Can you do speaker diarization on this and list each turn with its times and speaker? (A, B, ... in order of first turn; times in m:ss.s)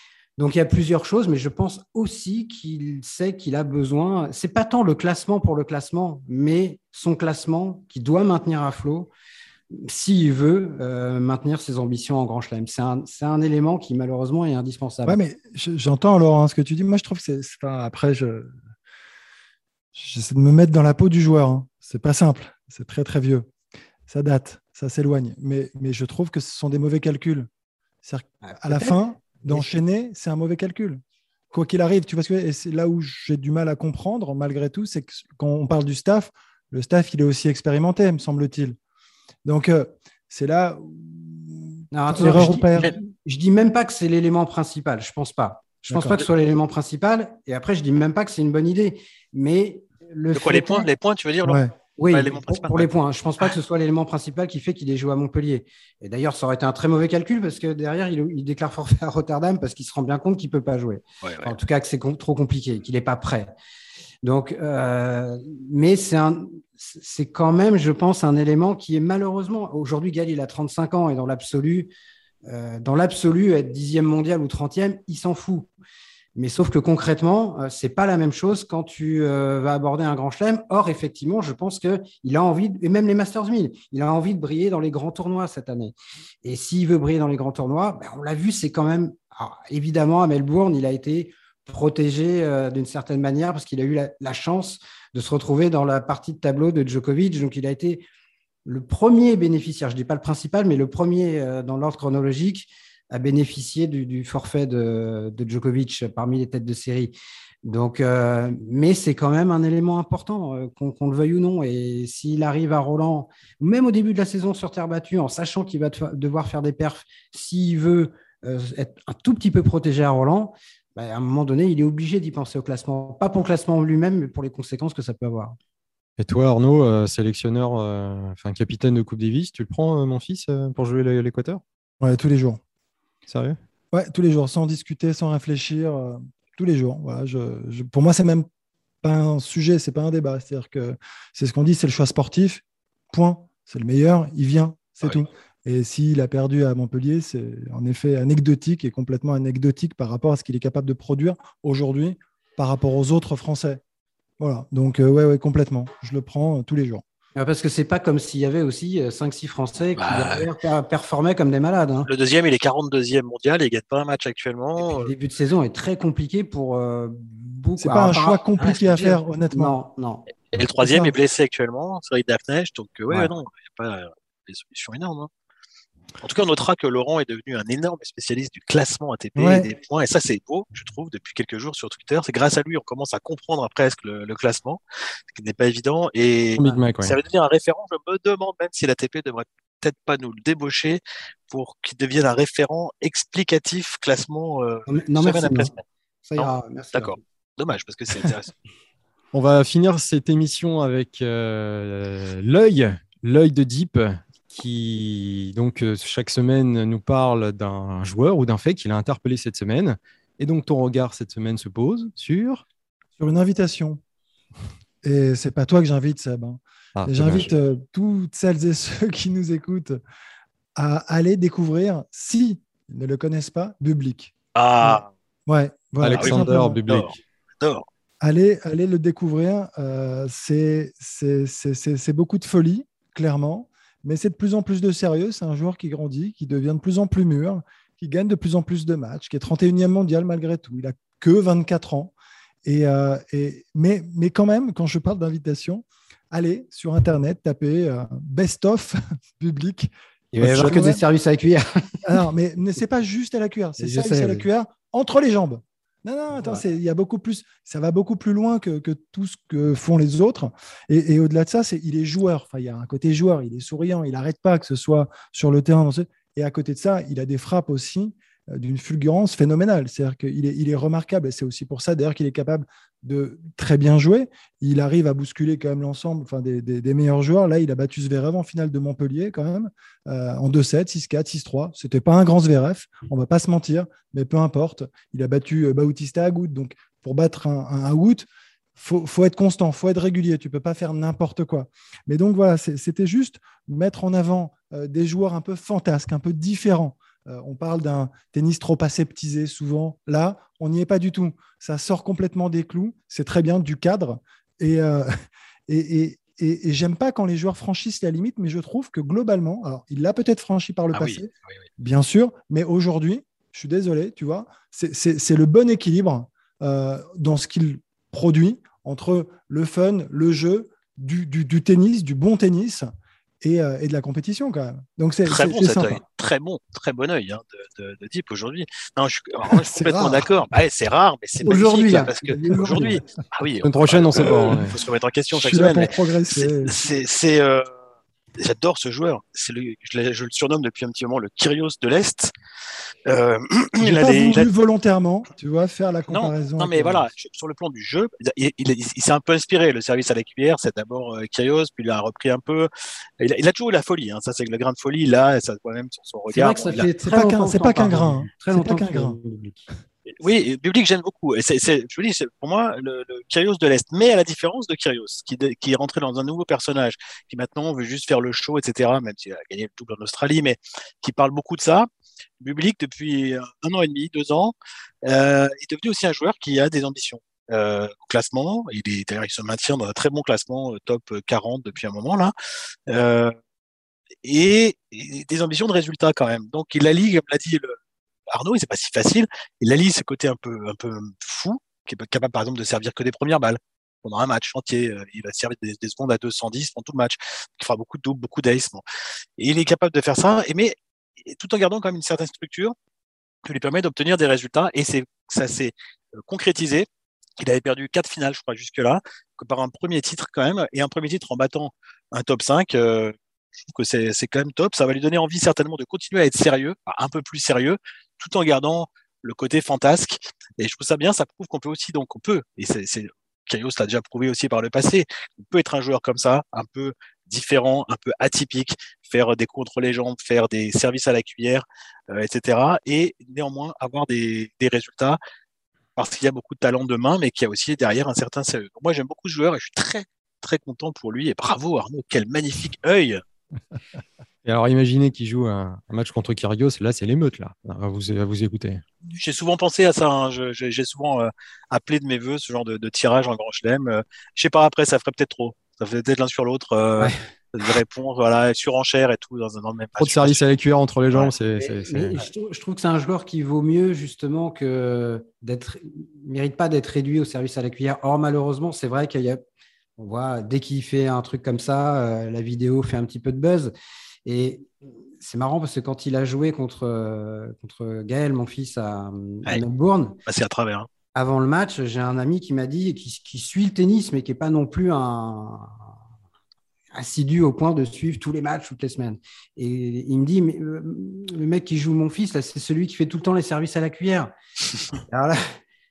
0:00.4-0:09.1 A
0:09.7-0:15.2 A
0:15.1-0:18.6 B
0:20.0-0:23.5 B
0:24.1-0:27.5 B
0:28.0-0:38.8 B
0:28.4-0:29.8 A
0:39.4-0:43.0 B
0:41.9-0:50.9 A
0:45.9-0:46.2 B
0:50.3-0:52.9 C
0:51.4-0:51.7 B
0:52.0-1:03.5 A
1:01.2-1:01.5 C
1:04.2-1:11.9 A
1:12.5-1:15.7 A
1:16.4-1:38.0 A
1:38.7-2:05.6 A
2:06.2-2:11.6 D
2:12.0-2:12.6 B
2:13.3-2:13.6 D
2:13.9-2:18.5 B
2:19.0-2:33.8 B
2:34.4-2:37.0 B
2:37.4-2:42.1 A
2:40.0-2:40.5 C
2:42.1-2:45.1 C
2:44.8-2:50.2 A
2:47.8-2:49.8 B
2:50.5-2:55.3 C
2:56.2-3:04.8 C
2:59.4-2:59.7 B
3:05.3-3:15.8 C
3:06.6-3:07.2 D
3:14.9-3:15.7 A
3:16.3-3:17.2 A
3:16.4-3:18.5 C
3:19.3-3:32.6 D
3:33.2-3:34.0 B
3:35.0-3:40.0 B
3:37.0-3:37.5 D
3:40.8-3:46.8 B
3:44.6-3:45.1 C
3:46.0-3:47.2 D
3:46.2-3:47.9 C
3:48.2-4:11.0 B
4:10.3-4:11.7 A
4:12.0-5:05.1 B
4:13.8-4:14.5 A
4:16.3-4:16.6 A
5:05.7-5:11.3 B
5:10.9-5:11.6 C
5:11.8-5:26.0 B
5:25.3-5:37.7 C
5:29.7-5:30.3 B
5:31.4-5:33.0 A
5:33.6-5:34.8 D
5:35.3-5:36.8 B
5:38.4-5:42.3 C
5:43.1-5:44.5 C
5:43.8-5:47.1 B
5:46.1-5:52.7 C
5:53.2-5:56.8 C
5:56.3-5:59.7 A
5:56.8-5:59.2 B
6:00.2-6:11.9 C
6:12.4-6:14.5 C
6:15.1-6:22.3 C
6:22.9-6:23.3 C
6:24.2-6:27.8 C
6:28.3-6:38.8 C
6:39.4-6:42.7 C
6:43.5-6:46.9 C
6:47.4-7:15.2 C
7:16.0-7:23.2 C
7:24.4-7:28.8 D
7:29.1-7:40.4 C
7:40.0-7:42.2 D
7:41.6-7:49.4 A
7:50.0-7:53.7 A
7:54.3-8:00.2 A
8:00.3-8:00.9 C
8:01.1-8:05.9 A
8:06.9-8:14.3 A
8:15.1-8:15.6 A